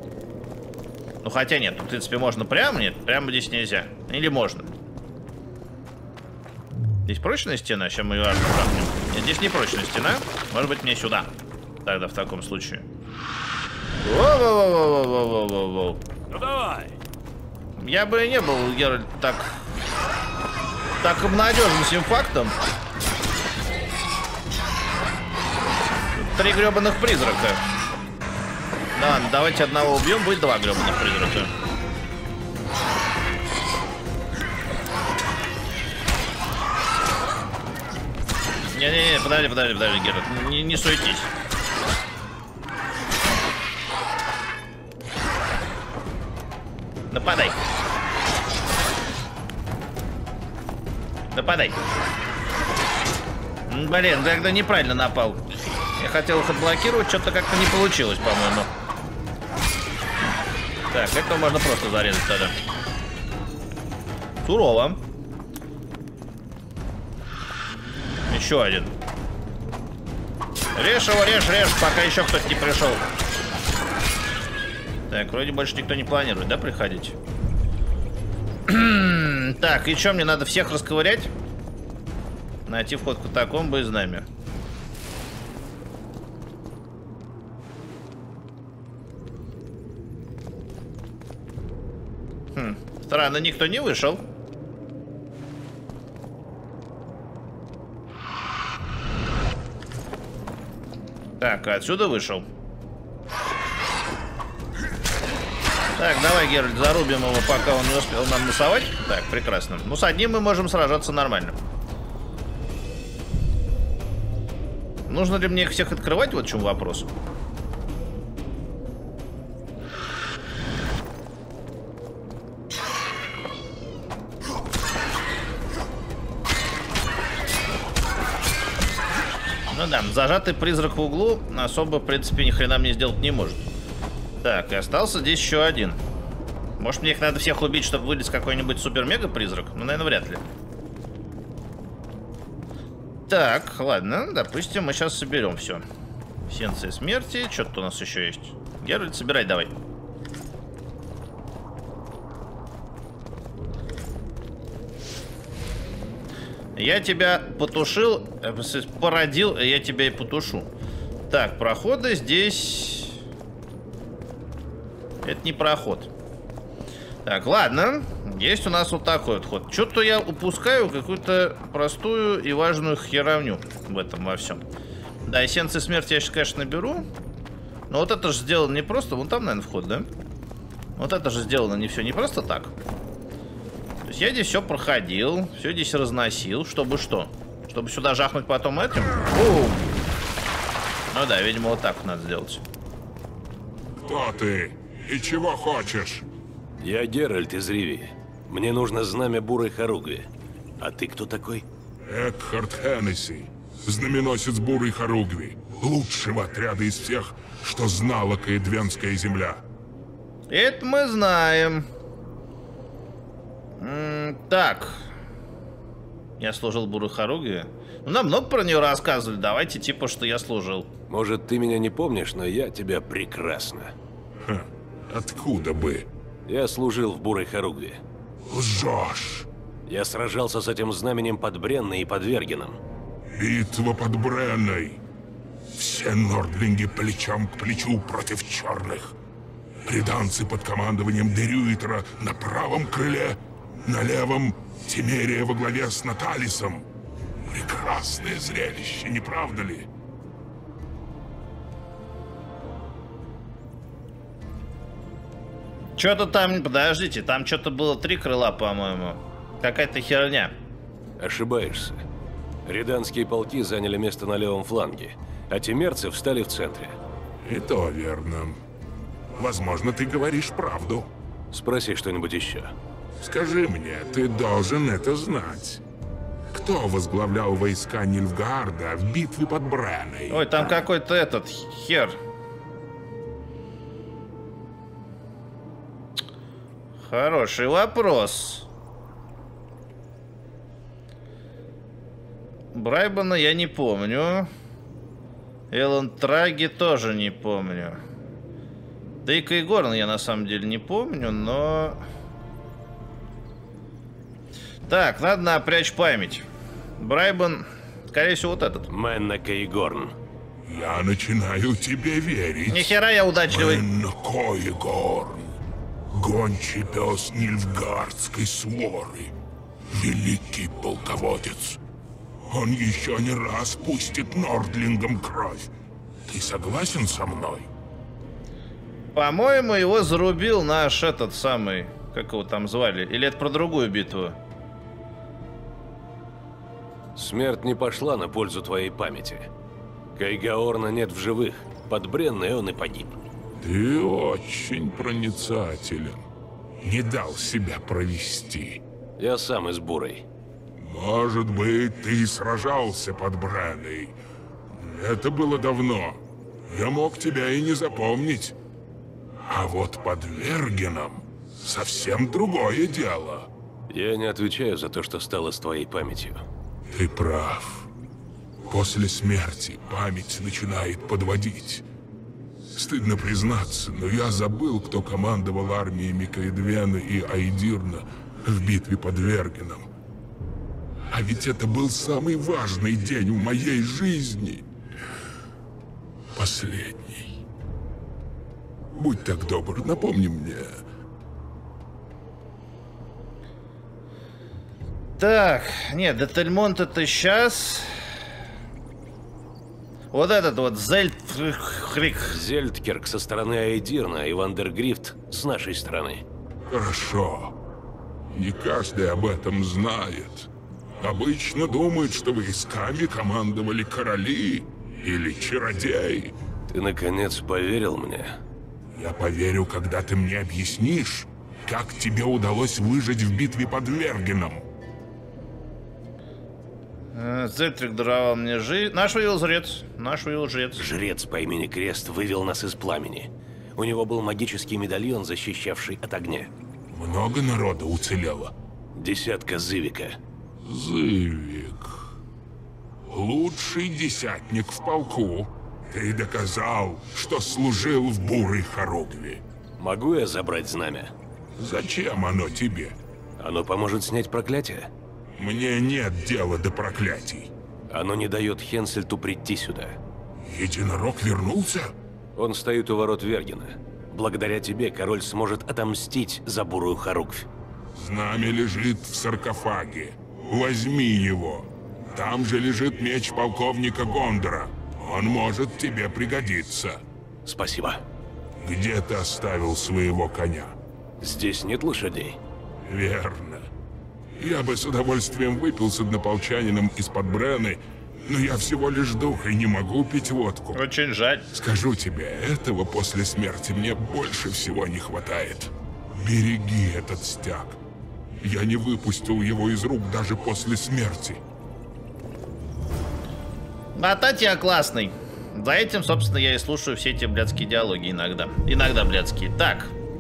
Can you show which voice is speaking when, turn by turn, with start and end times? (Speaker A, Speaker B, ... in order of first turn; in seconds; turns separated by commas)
Speaker A: 1.2-4.7, Speaker A: 7.1-11.3, Speaker A: 11.8-12.8, Speaker A: 14.0-16.0, Speaker B: 16.3-17.0, Speaker A: 17.8-19.6, Speaker A: 21.0-22.6, Speaker A: 26.1-27.6, Speaker A: 28.9-31.5, Speaker A: 38.7-41.3, Speaker A: 47.1-47.6, Speaker A: 51.3-51.8, Speaker A: 53.7-55.5, Speaker A: 56.0-58.7, Speaker A: 60.9-62.5, Speaker A: 64.4-65.0, Speaker A: 68.3-68.9, Speaker A: 70.8-73.0, Speaker A: 75.1-77.2, Speaker A: 78.7-81.3, Speaker A: 82.7-84.3, Speaker A: 92.5-94.2, Speaker A: 101.4-102.5, Speaker A: 106.0-111.6, Speaker A: 115.1-117.1, Speaker A: 129.7-133.7, Speaker A: 134.4-136.0, Speaker A: 136.8-140.4, Speaker A: 143.3-145.8, Speaker A: 146.5-149.7, Speaker A: 156.8-160.7, Speaker A: 161.3-163.2, Speaker A: 165.2-166.1, Speaker A: 167.2-174.6, Speaker A: 175.2-177.1, Speaker A: 177.9-180.1, Speaker A: 181.0-182.7, Speaker A: 184.0-189.8, Speaker A: 191.1-192.6, Speaker C: 194.0-196.3, Speaker B: 196.8-200.3, Speaker B: 200.8-201.7, Speaker C: 202.1-209.6, Speaker A: 210.5-211.9, Speaker A: 213.8-215.1, Speaker A: 216.4-220.9, Speaker B: 221.1-223.9, Speaker C: 224.4-226.1, Speaker B: 226.5-228.0, Speaker C: 228.5-229.5, Speaker B: 229.9-232.8, Speaker C: 233.3-235.0, Speaker C: 235.7-239.2, Speaker C: 239.8-246.9, Speaker C: 247.4-249.9, Speaker A: 256.0-260.5, Speaker B: 261.2-262.0, Speaker B: 262.7-266.9, Speaker C: 267.4-268.6, Speaker C: 269.4-271.1, Speaker B: 271.5-272.7, Speaker C: 273.2-275.8, Speaker C: 276.5-280.6, Speaker A: 280.3-282.2, Speaker A: 287.0-288.7, Speaker A: 292.7-294.5, Speaker A: 295.7-298.0, Speaker A: 299.2-302.0, Speaker A: 304.9-306.4, Speaker A: 307.0-308.9, Speaker B: 308.9-310.1, Speaker C: 310.7-315.6, Speaker A: 312.7-313.9, Speaker C: 316.1-319.4, Speaker C: 319.9-321.8, Speaker C: 322.5-325.7, Speaker C: 326.3-327.7, Speaker A: 329.1-334.4, Speaker B: 337.1-339.5, Speaker B: 340.2-343.1, Speaker C: 343.6-346.3, Speaker C: 346.8-348.8, Speaker B: 349.2-350.2, Speaker C: 350.8-354.2, Speaker C: 354.7-358.6, Speaker C: 359.4-363.5, Speaker B: 363.9-366.4, Speaker C: 366.9-367.9, Speaker C: 368.7-371.9, Speaker C: 372.7-379.9, Speaker C: 381.1-384.7, Speaker C: 386.4-387.4, Speaker C: 388.9-390.8, Speaker A: 395.2-398.1, Speaker A: 400.1-402.4, Speaker B: 402.3-406.2, Speaker C: 406.7-407.6, Speaker C: 408.3-416.4, Speaker B: 416.7-418.4, Speaker C: 418.9-424.7, Speaker A: 427.1-430.8, Speaker B: 430.8-436.5, Speaker C: 436.9-438.5, Speaker B: 438.9-440.2, Speaker C: 440.6-442.1, Speaker C: 443.1-449.4, Speaker B: 449.8-451.1, Speaker C: 451.6-453.0, Speaker B: 453.4-454.9, Speaker C: 455.4-457.5, Speaker B: 457.9-460.0, Speaker C: 460.4-461.9, Speaker B: 462.4-467.5, Speaker C: 467.9-477.0, Speaker B: 477.5-478.0, Speaker C: 478.6-480.8, Speaker B: 481.2-482.4, Speaker C: 482.9-483.7, Speaker C: 484.4-490.8, Speaker A: 490.8-491.5, Speaker C: 491.5-497.8, Speaker C: 498.4-501.4, Speaker A: 503.9-509.9